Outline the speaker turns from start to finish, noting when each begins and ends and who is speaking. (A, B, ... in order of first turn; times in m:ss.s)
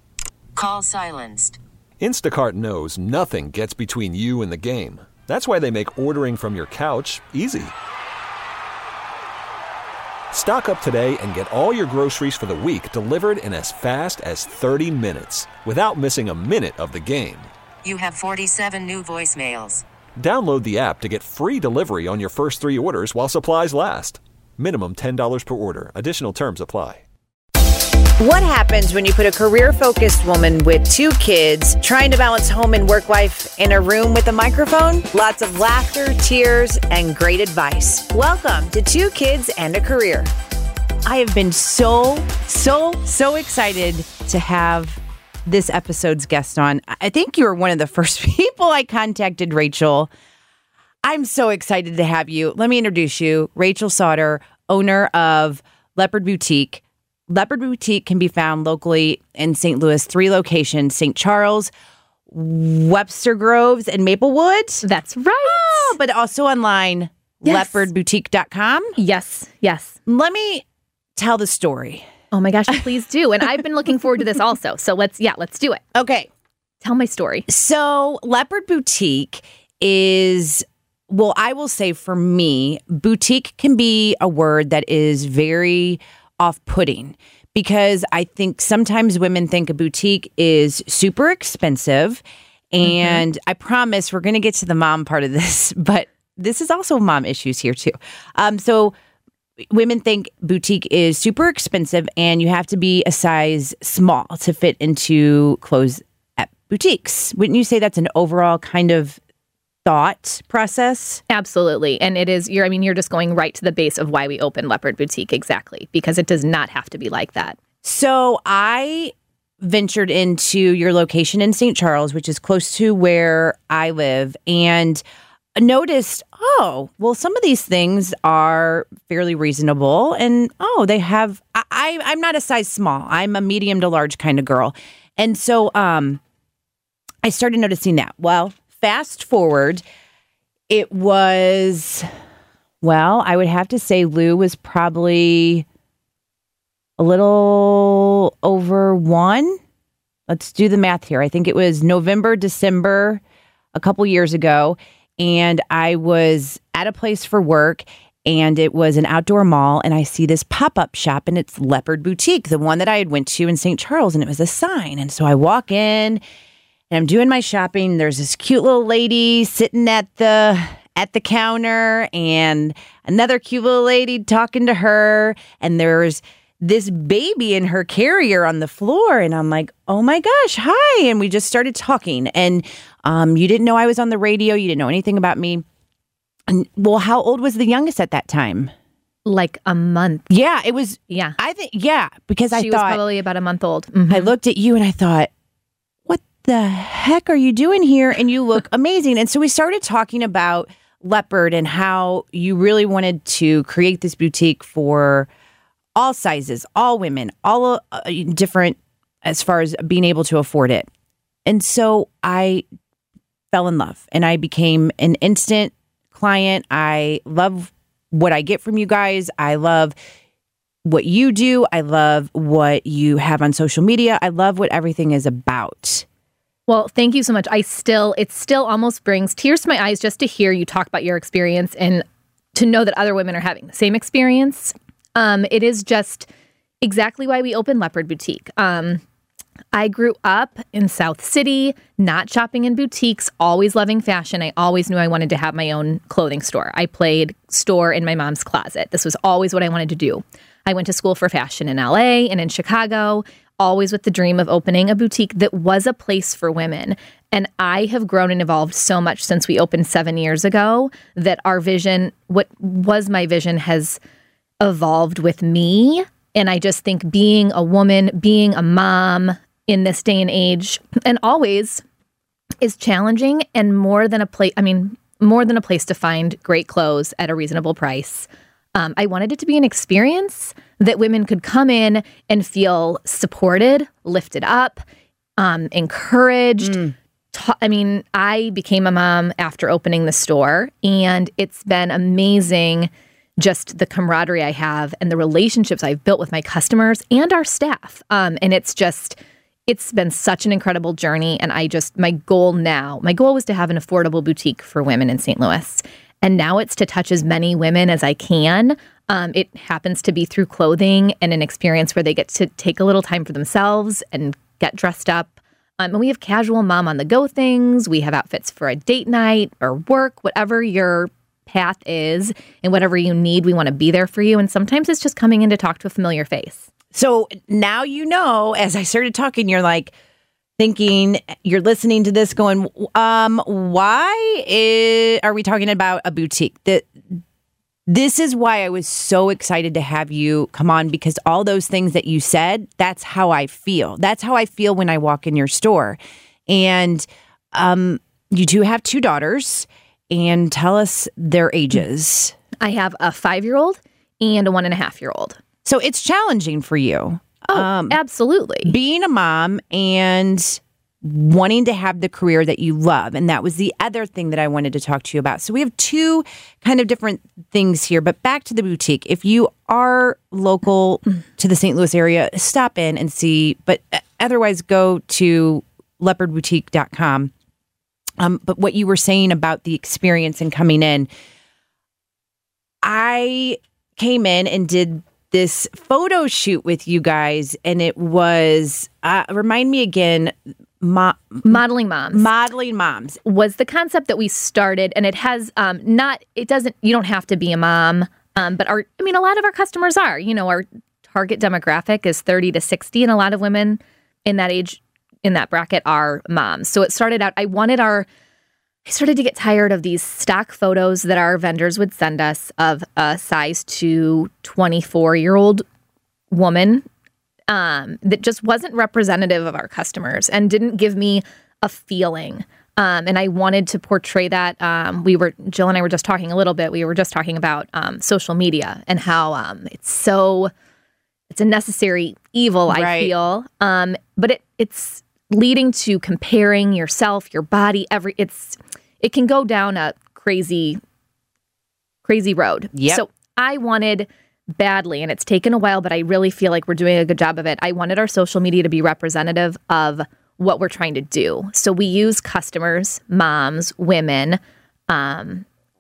0:00.5-0:01.6 A
0:02.0-0:07.7 B
0:10.3-0:17.5 B
0:17.8-0:19.8 A
0:20.2-0:27.0 B
0:28.2-0:40.3 C
0:41.0-0:50.1 C
0:51.0-1:01.7 C
1:02.3-1:04.8 C
1:04.8-1:06.0 D
1:05.4-1:08.9 C
1:07.4-1:07.9 D
1:09.0-1:10.0 D
1:10.0-1:10.6 C
1:11.2-1:12.0 C
1:12.3-1:15.8 D
1:15.9-1:16.3 C
1:16.8-1:17.5 D
1:17.5-1:38.9 C
1:32.8-1:33.2 D
1:39.7-1:49.2 C
1:49.8-1:51.2 C
1:51.3-1:57.6 D
1:57.8-2:05.0 C
2:05.6-2:16.2 C
2:17.2-2:19.8 C
2:20.7-2:22.1 C
2:22.8-2:25.7 C
2:27.0-2:29.6 C
2:30.3-2:33.2 C
2:33.8-2:46.2 C
2:46.9-3:05.6 C
3:06.5-3:08.7 C
3:09.2-3:10.3 D
3:10.3-3:13.0 C
3:11.1-3:11.4 D
3:12.5-3:14.3 D
3:14.1-3:15.3 C
3:16.1-3:25.3 C
3:26.0-3:30.9 C
3:31.5-3:32.6 C
3:33.5-3:40.0 C
3:40.8-3:46.1 C
3:46.7-3:56.3 D
3:56.8-3:59.0 D
3:59.7-4:24.0 D
4:24.6-4:31.8 D
4:32.6-4:44.8 D
4:45.4-4:46.8 D
4:46.6-4:46.9 C
4:47.3-5:26.7 D
5:26.9-5:29.9 C
5:30.6-5:37.0 C
5:37.9-5:52.3 C
5:52.6-5:55.4 D
5:55.6-5:58.0 C
5:57.5-5:58.7 D
5:58.6-6:17.3 C
6:18.2-6:21.1 C
6:22.8-6:33.2 C
6:31.4-6:32.3 D
6:33.2-6:48.1 D
6:48.8-6:55.6 D
6:56.3-6:56.8 D
6:57.5-7:10.5 D
7:11.3-7:20.8 D
7:12.7-7:13.1 C
7:22.0-7:35.4 D
7:22.7-7:23.0 C